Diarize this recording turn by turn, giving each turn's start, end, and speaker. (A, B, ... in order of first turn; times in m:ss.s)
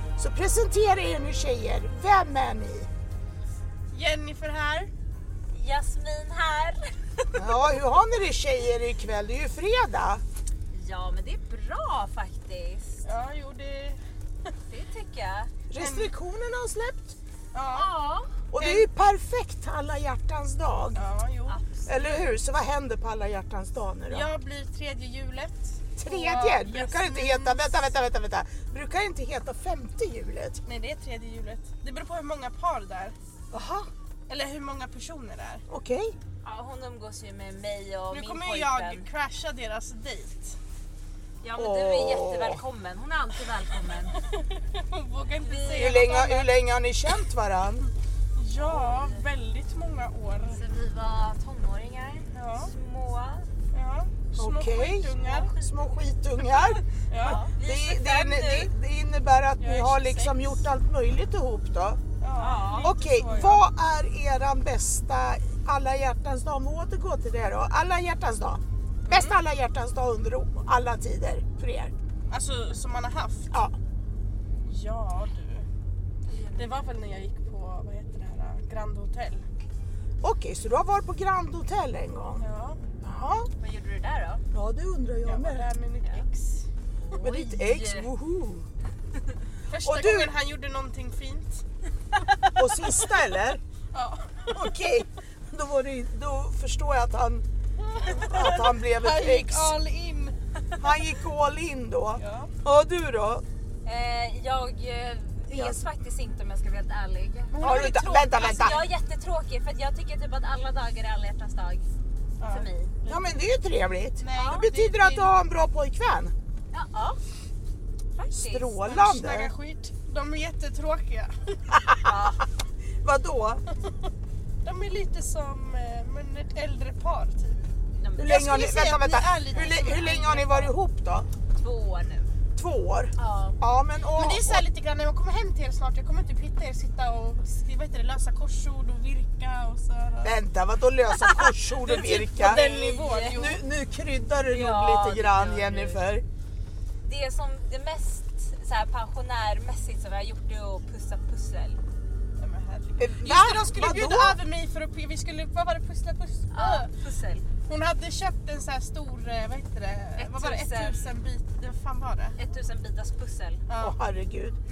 0:00.2-0:02.9 A
0:03.9-0:04.9 B
0:05.5-0:07.8 C
0:07.3-0:10.2 A
0:10.7-0:13.1 C
0:13.0-0:14.0 B
0:14.7-0:15.5 C
0:15.7-0:17.2 A
0:15.7-0:16.1 B
0:17.5-0:17.9 B
0:17.7-0:18.4 C
0:18.5-0:21.0 A
0:18.6-0:18.9 B
0:20.9-0:21.6 B
0:21.5-0:22.2 C
0:21.8-0:24.3 A
0:24.1-0:27.9 B
0:26.0-0:30.6 A
0:30.6-0:33.1 B
0:33.5-0:33.9 A
0:34.3-0:35.6 B
0:35.7-0:36.2 A
0:36.4-0:39.1 C
0:38.1-0:40.6 B
0:41.4-0:44.2 C
0:41.6-0:42.6 A
0:44.1-0:46.5 B
0:45.4-0:46.0 C
0:45.7-0:47.9 A
0:48.4-0:50.6 B
0:48.6-0:49.2 C
0:50.5-0:53.5 C
0:52.3-0:52.7 B
0:53.7-0:55.5 B
0:54.4-1:02.0 A
0:55.1-0:58.7 C
0:57.1-0:57.5 B
0:59.6-1:00.6 B
1:02.2-1:03.6 B
1:02.4-1:02.9 C
1:02.8-1:11.9 A
1:09.1-1:09.4 C
1:12.3-1:13.5 B
1:14.6-1:15.7 B
1:16.3-1:16.8 C
1:16.5-1:19.4 B
1:20.2-1:22.4 A
1:22.4-1:22.8 B
1:23.0-1:23.5 A
1:23.6-1:24.4 C
1:24.5-1:25.7 A
1:25.2-1:26.6 B
1:27.0-1:28.1 C
1:27.2-1:28.7 A
1:29.7-1:31.6 B
1:29.8-1:30.3 A
1:32.6-1:33.6 A
1:33.9-1:34.8 B
1:34.5-1:37.4 A
1:38.0-1:40.4 B
1:38.1-1:39.7 A
1:40.8-1:43.4 A
1:42.2-1:42.5 B
1:43.8-1:51.8 C
1:45.5-1:45.8 A
1:47.5-1:48.1 B
1:47.6-1:48.9 A
1:52.4-1:53.4 B
1:52.4-1:53.0 C
1:53.1-1:56.3 A
1:54.2-1:55.3 B
1:54.3-1:54.7 C
1:56.7-1:57.2 C
1:58.1-1:58.8 C
1:58.3-1:59.5 A
1:58.8-2:01.9 B
2:01.7-2:02.1 A
2:02.0-2:02.4 C
2:03.0-2:03.6 A
2:04.6-2:07.6 B
2:08.0-2:08.3 C
2:08.2-2:11.3 A
2:08.2-2:10.8 B
2:11.6-2:12.3 C
2:12.6-2:14.6 A
2:13.2-2:13.6 C
2:14.1-2:20.4 B
2:20.2-2:26.2 A
2:21.1-2:21.6 C
2:21.8-2:23.6 B
2:22.4-2:23.5 C
2:24.5-2:26.0 C
2:27.0-2:31.8 C
2:32.4-2:36.9 B
2:33.0-2:34.4 A
2:36.5-2:37.4 C
2:37.6-2:42.4 B
2:40.2-2:41.2 C
2:42.4-2:43.6 C
2:43.7-2:44.0 B
2:43.8-2:44.6 A